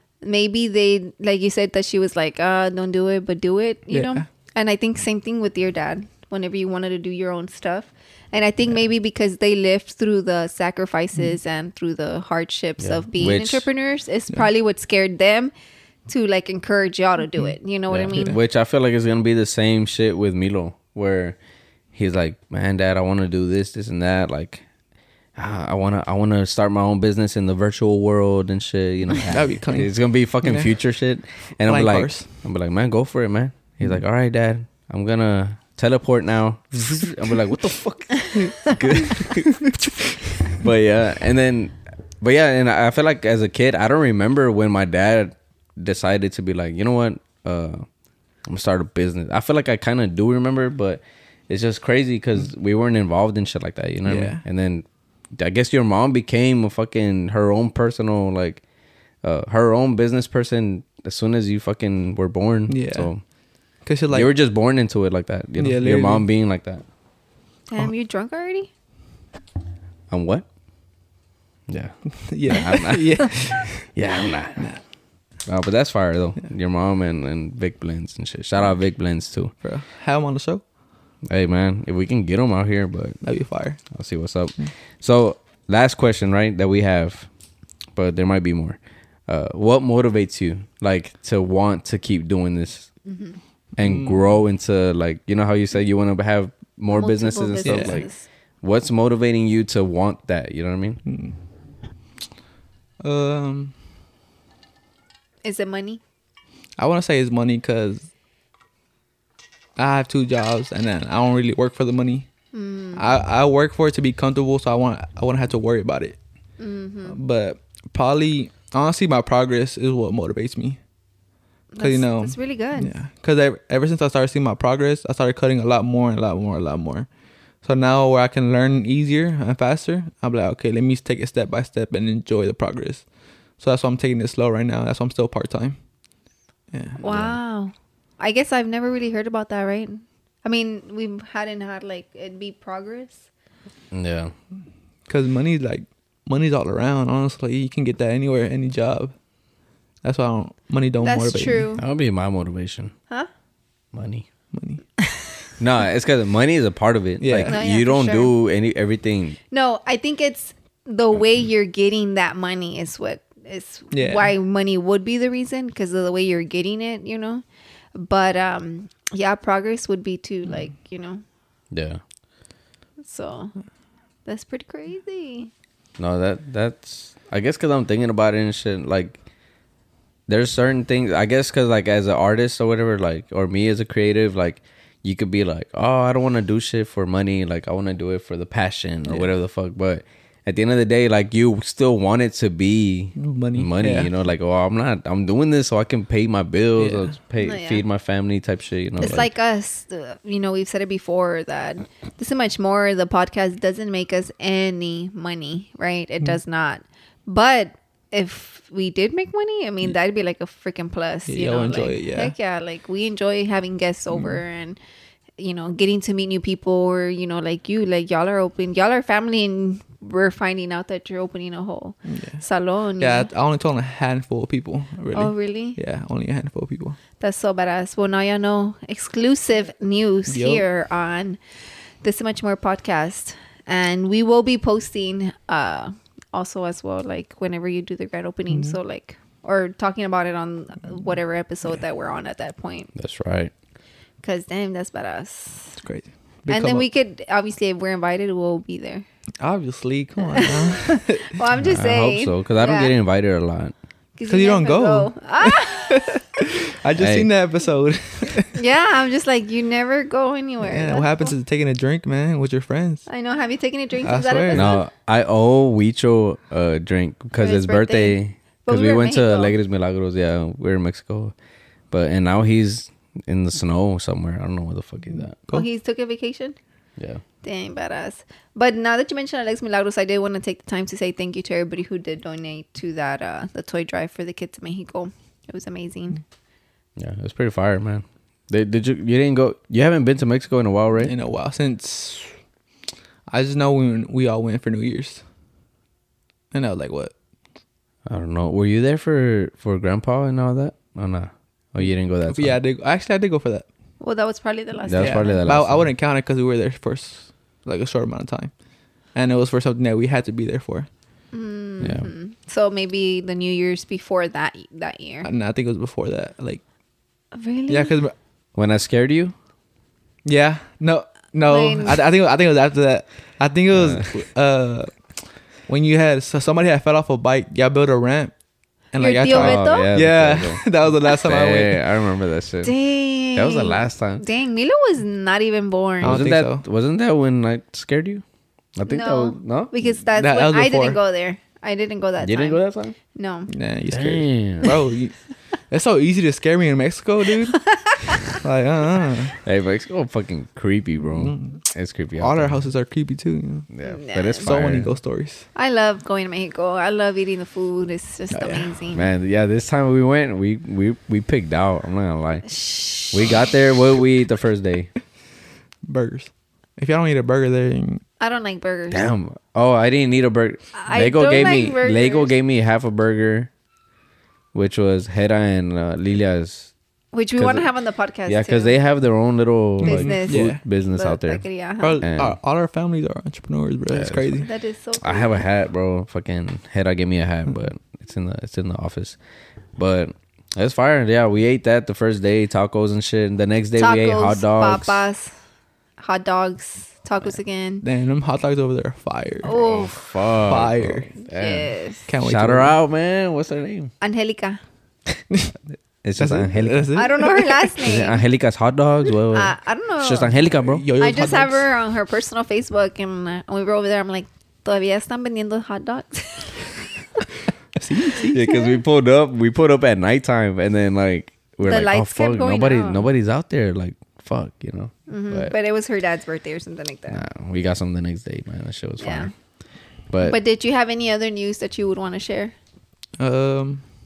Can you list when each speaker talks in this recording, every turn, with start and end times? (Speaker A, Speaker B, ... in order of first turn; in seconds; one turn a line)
Speaker A: 0.2-15.5
Speaker B: 3.9-4.2
Speaker C: 12.8-13.7
Speaker A: 16.1-18.4
Speaker C: 17.9-21.4
Speaker C: 21.9-24.6
Speaker C: 25.4-39.9
Speaker B: 29.3-30.8
Speaker B: 31.6-32.3
Speaker C: 40.5-47.8
Speaker C: 48.5-58.6
Speaker B: 54.0-54.4
Speaker C: 59.2-63.2
Speaker B: 62.7-63.1
Speaker B: 63.8-64.3
Speaker C: 64.1-66.8
Speaker B: 65.6-66.2
Speaker A: 67.7-68.7
Speaker C: 70.1-70.5
Speaker C: 71.7-74.7
Speaker B: 72.2-73.9
Speaker C: 75.5-79.5
Speaker B: 79.6-80.6
Speaker C: 81.2-83.2
Speaker B: 83.2-83.8
Speaker C: 83.9-87.3
Speaker C: 87.9-92.9
Speaker A: 93.0-93.4
Speaker C: 93.8-98.1
Speaker B: 93.8-94.2
Speaker A: 96.9-98.2
Speaker B: 97.6-98.0
Speaker C: 98.6-101.0
Speaker B: 101.0-101.3
Speaker B: 103.0-103.7
Speaker A: 105.4-106.0
Speaker B: 106.8-108.1
Speaker B: 109.8-112.3
Speaker A: 112.5-113.2
Speaker B: 113.0-116.2
Speaker A: 116.6-117.2
Speaker B: 117.1-120.8
Speaker A: 121.7-122.9
Speaker B: 121.8-127.1
Speaker B: 127.6-133.0
Speaker B: 133.6-135.8
Speaker B: 136.7-137.0
Speaker A: 137.0-143.3
Speaker C: 137.0-137.4
Speaker C: 143.9-144.3
Speaker B: 145.1-149.1
Speaker B: 150.0-151.7
Speaker A: 151.0-151.8
Speaker C: 151.8-152.9
Speaker C: 153.9-154.2
Speaker B: 154.5-154.9
Speaker C: 155.6-159.4
Speaker B: 157.2-157.6
Speaker A: 157.4-158.3
Speaker A: 159.5-167.4
Speaker B: 163.9-164.3
Speaker A: 167.9-171.2
Speaker C: 171.7-172.0
Speaker A: 173.1-173.5
Speaker A: 174.2-175.5
Speaker C: 176.0-179.2
Speaker C: 180.3-199.3
Speaker B: 193.2-194.1
Speaker B: 196.8-197.1
Speaker A: 197.4-197.8
Speaker A: 199.0-214.8
Speaker B: 211.3-212.3
Speaker A: 215.4-223.3
Speaker B: 222.1-222.4
Speaker B: 223.0-227.0
Speaker A: 225.1-225.8
Speaker A: 227.2-231.4
Speaker B: 230.3-230.6
Speaker A: 232.0-242.9
Speaker B: 238.5-238.8
Speaker C: 242.9-243.5
Speaker A: 244.2-245.8
Speaker B: 245.8-246.8
Speaker A: 246.5-249.0
Speaker B: 249.4-251.4
Speaker A: 250.2-252.9
Speaker C: 251.6-253.7
Speaker A: 254.2-256.2
Speaker B: 254.3-258.6
Speaker C: 256.9-257.3
Speaker A: 258.5-261.3
Speaker B: 260.6-263.1
Speaker A: 263.1-264.8
Speaker B: 264.0-264.7
Speaker C: 264.5-271.3
Speaker A: 267.4-269.5
Speaker C: 271.9-275.4
Speaker B: 275.4-275.7
Speaker A: 275.5-276.6
Speaker C: 277.0-277.2
Speaker A: 277.4-286.2
Speaker C: 287.0-291.1
Speaker B: 291.0-292.4
Speaker B: 293.3-295.2
Speaker B: 296.5-297.1
Speaker C: 298.1-302.6
Speaker B: 302.3-303.7
Speaker A: 304.0-305.4
Speaker C: 304.8-305.9
Speaker B: 305.0-308.5
Speaker B: 309.1-310.9
Speaker A: 311.3-315.3
Speaker C: 311.8-312.1
Speaker B: 315.2-316.6
Speaker A: 317.3-318.0
Speaker B: 317.7-318.1
Speaker C: 318.5-319.3
Speaker B: 320.2-328.3
Speaker A: 321.5-322.0
Speaker C: 323.7-324.1
Speaker B: 328.9-331.8
Speaker A: 329.0-329.9
Speaker C: 329.3-332.7
Speaker A: 332.6-336.2
Speaker C: 333.3-334.2
Speaker B: 336.0-336.6
Speaker C: 336.0-338.2
Speaker C: 338.8-339.7
Speaker A: 338.9-342.6
Speaker B: 340.1-341.0
Speaker C: 342.2-342.9
Speaker A: 343.1-343.5
Speaker B: 343.5-345.2
Speaker C: 343.9-344.7
Speaker B: 345.7-349.4
Speaker A: 347.5-348.4
Speaker C: 349.4-352.6
Speaker B: 351.1-351.6
Speaker B: 352.2-353.7
Speaker C: 353.7-354.9
Speaker A: 353.8-354.5
Speaker B: 354.4-355.4
Speaker A: 355.5-359.0
Speaker B: 358.3-358.8
Speaker C: 358.9-364.9
Speaker A: 362.5-363.2
Speaker B: 365.9-368.0
Speaker A: 368.2-369.0
Speaker C: 368.9-373.5
Speaker A: 370.7-372.3
Speaker C: 374.5-376.7
Speaker A: 377.1-378.8
Speaker C: 377.4-377.7
Speaker C: 378.2-381.4
Speaker A: 379.8-382.0
Speaker B: 379.8-380.6
Speaker B: 381.8-384.5
Speaker C: 382.0-382.4
Speaker C: 383.9-384.2
Speaker A: 384.4-385.4
Speaker C: 385.0-389.2
Speaker C: 389.8-395.0
Speaker A: 393.8-395.3
Speaker A: 396.0-397.8
Speaker B: 397.8-399.5
Speaker A: 399.4-400.0
Speaker C: 399.4-403.9
Speaker B: 400.4-401.1
Speaker A: 401.2-402.1
Speaker B: 402.1-402.7
Speaker A: 404.0-404.6
Speaker C: 406.0-407.0
Speaker B: 406.2-407.7
Speaker A: 406.9-408.2
Speaker C: 407.8-410.9
Speaker A: 409.3-417.2
Speaker B: 410.6-411.7
Speaker B: 417.8-418.4
Speaker C: 418.3-425.5
Speaker A: 421.6-423.1
Speaker A: 425.1-427.2
Speaker C: 427.1-429.3
Speaker A: 429.0-429.3
Speaker C: 430.1-430.4
Speaker A: 430.2-432.5
Speaker B: 433.2-433.8